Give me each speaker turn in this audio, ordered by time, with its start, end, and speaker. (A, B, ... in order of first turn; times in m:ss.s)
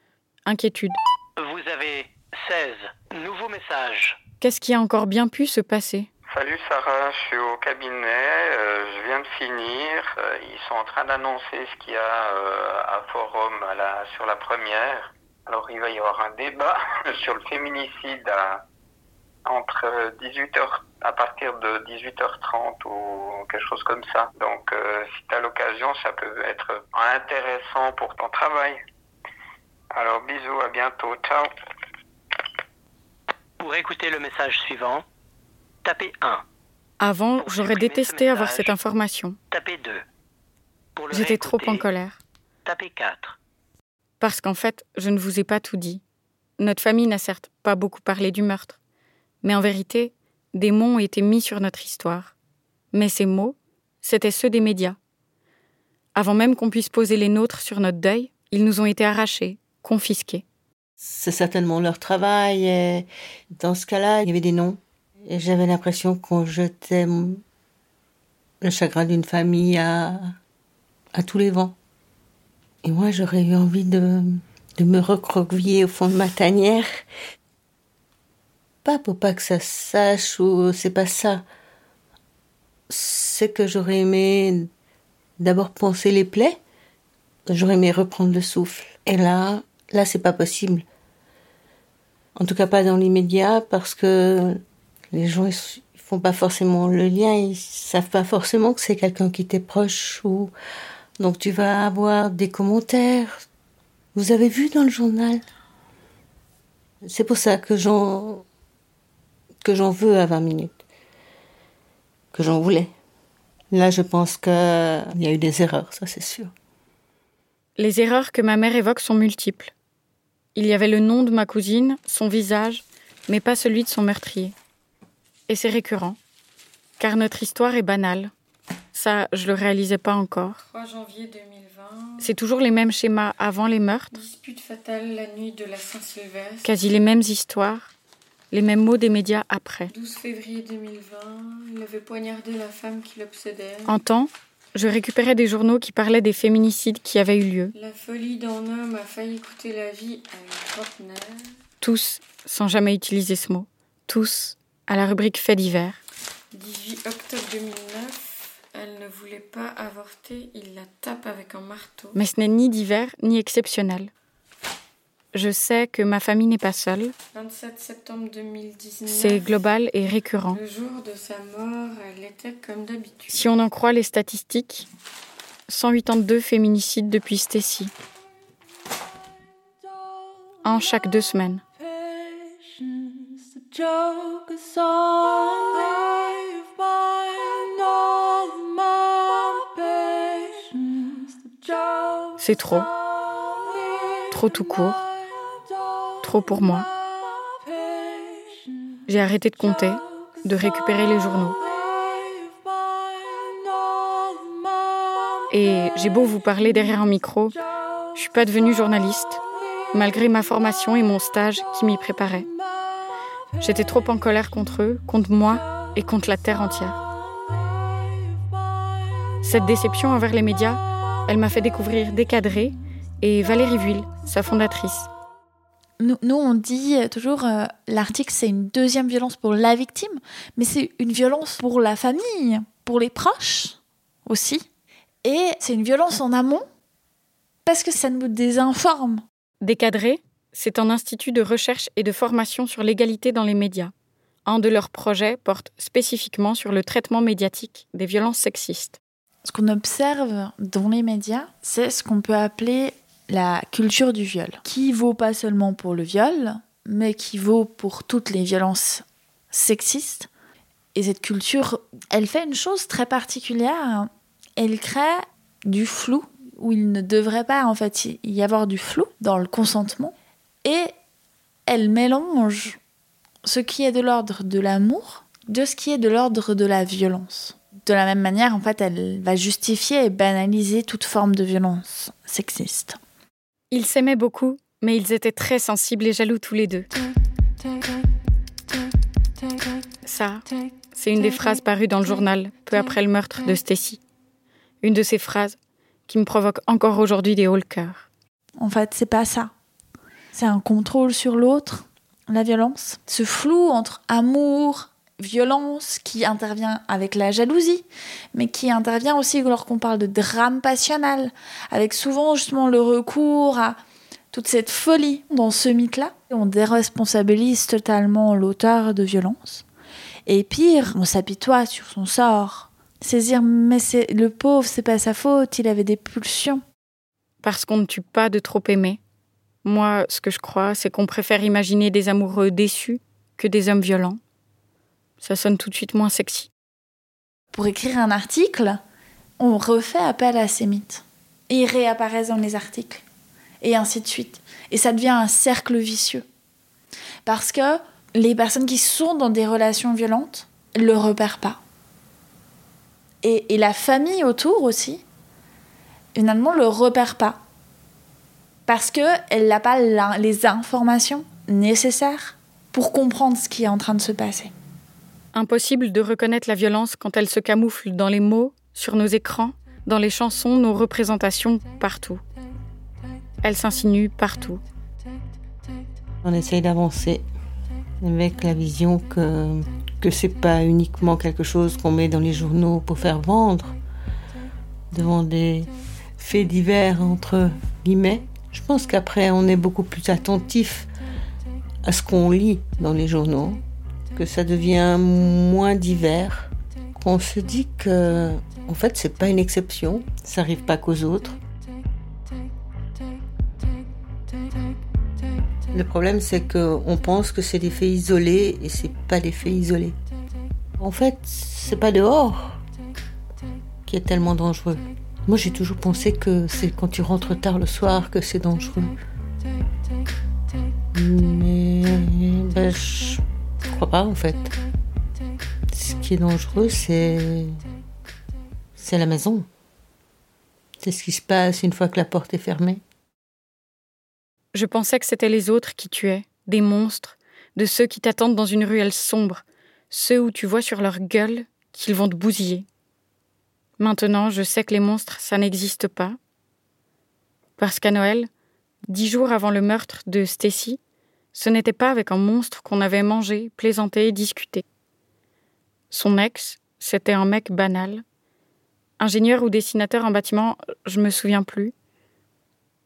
0:00.4-0:01.0 A
0:01.4-0:04.2 B
0:04.4-0:06.1 A
0:06.3-0:18.6 C
0:19.4-0:28.8 C
0:29.9-0:31.5 C
0:33.6-0:35.0 B
0:35.8-0:36.4 B
0:37.0-0:39.4 A
0:37.4-0:38.7 B
0:39.5-0:40.0 B
0:41.0-0:41.8 B
0:41.1-0:42.2 A
0:42.6-0:43.4 B
0:44.2-0:46.0 A
0:46.6-0:48.8 A
0:49.4-0:52.3 A
0:52.9-0:55.0 A
0:56.1-1:00.4 A
1:01.0-1:07.4 D
1:08.6-1:10.3 D
1:11.1-1:11.8 D
1:12.8-1:16.9 D
1:18.8-1:21.4 D
1:22.9-1:24.7 D
1:25.4-1:26.6 D
1:27.5-1:30.8 D
1:32.4-1:40.5 D
1:41.2-1:43.4 D
1:44.1-1:45.4 D
1:47.0-1:48.4 D
1:49.6-1:50.8 D
1:52.3-1:52.9 D
1:53.7-1:56.5 D
1:57.8-1:59.7 A
2:00.5-2:04.5 A
2:05.5-2:06.2 A
2:07.0-2:08.3 A
2:08.9-2:10.6 A
2:10.7-2:12.2 E
2:12.2-2:14.2 A
2:14.1-2:16.7 E
2:16.6-2:17.9 A
2:18.5-2:19.9 A
2:19.9-2:23.9 E
2:23.8-2:27.7 A
2:27.8-2:31.4 E
2:31.8-2:36.0 A
2:36.5-2:42.2 E
2:42.1-2:44.1 A
2:45.3-2:47.1 A
2:47.3-2:49.4 E
2:49.1-2:50.6 A
2:50.5-2:53.4 E
2:53.3-2:54.9 A
2:55.7-2:57.9 A
3:00.6-3:01.6 A
3:03.8-3:06.6 E
3:08.1-3:08.6 E
3:09.1-3:10.9 E
3:12.4-3:12.9 A
3:14.3-3:15.0 A
3:16.2-3:16.9 A
3:19.1-3:21.6 A
3:25.5-3:27.6 A
3:28.1-3:29.4 A
3:29.9-3:32.5 A
3:33.6-3:37.0 A
3:39.4-3:45.1 A
3:46.0-3:54.6 F
3:55.2-3:56.6 F
3:57.6-3:59.2 F
3:59.6-4:03.9 A
4:04.4-4:09.0 A
4:09.4-4:20.3 F
4:20.9-4:30.1 F
4:30.6-4:30.9 F
4:31.7-4:32.8 F
4:33.4-4:43.0 F
4:43.7-4:46.9 A
4:50.0-4:54.0 A
4:54.8-4:55.6 A
4:56.1-4:58.1 A
4:58.6-4:59.5 F
5:00.3-5:13.8 F
5:14.3-5:19.6 F
5:20.2-5:26.6 F
5:27.4-5:29.0 A
5:29.6-5:34.2 A
5:35.2-5:36.5 A
5:37.5-5:38.8 F
5:39.4-5:43.0 F
5:43.6-5:46.2 F
5:47.2-5:51.6 F
5:53.2-5:55.0 F
5:56.1-5:57.4 F
5:58.7-6:04.5 F
6:05.3-6:12.2 A
6:13.4-6:14.6 A
6:16.2-6:17.2 D
6:18.0-6:23.8 D
6:24.9-6:30.9 D
6:31.8-6:33.6 D
6:34.1-6:41.4 D
6:45.7-6:50.0 D
6:50.8-6:52.6 D
6:53.9-6:59.0 D
7:00.9-7:04.5 D
7:05.7-7:07.6 D
7:08.8-7:09.4 D
7:10.8-7:12.8 D
7:14.5-7:22.6 A
7:23.8-7:26.2 A
7:27.6-7:28.3 A
7:28.9-7:30.8 A
7:31.3-7:34.6 A
7:35.9-7:38.0 A
7:39.0-7:41.7 A